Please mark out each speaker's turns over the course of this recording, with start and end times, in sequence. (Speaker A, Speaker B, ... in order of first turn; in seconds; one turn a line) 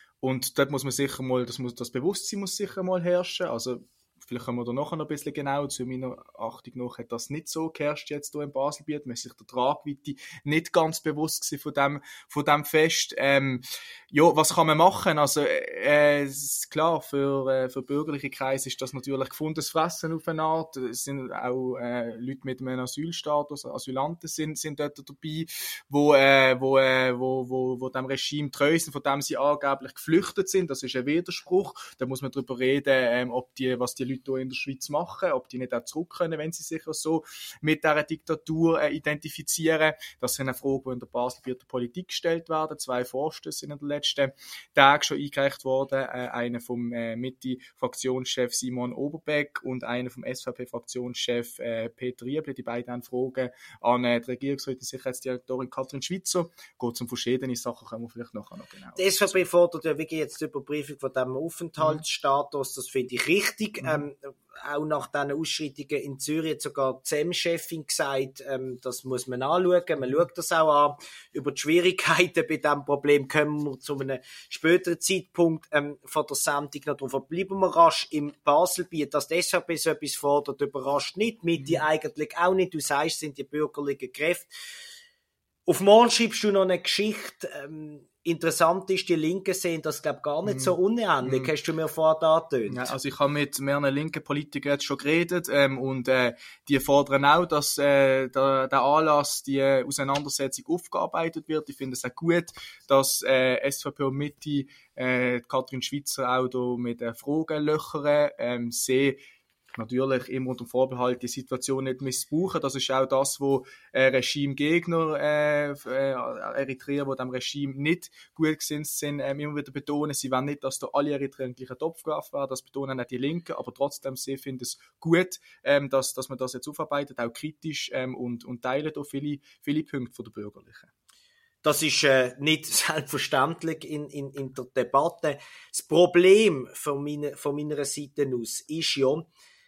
Speaker A: 0.2-59.5
Speaker B: 59.0-84.5
Speaker A: 61.8-62.0
Speaker A: 81.6-81.8
Speaker B: 85.7-92.9
Speaker A: 90.4-91.6
Speaker A: 92.6-109.2
Speaker A: 109.8-130.9
Speaker B: 131.6-139.3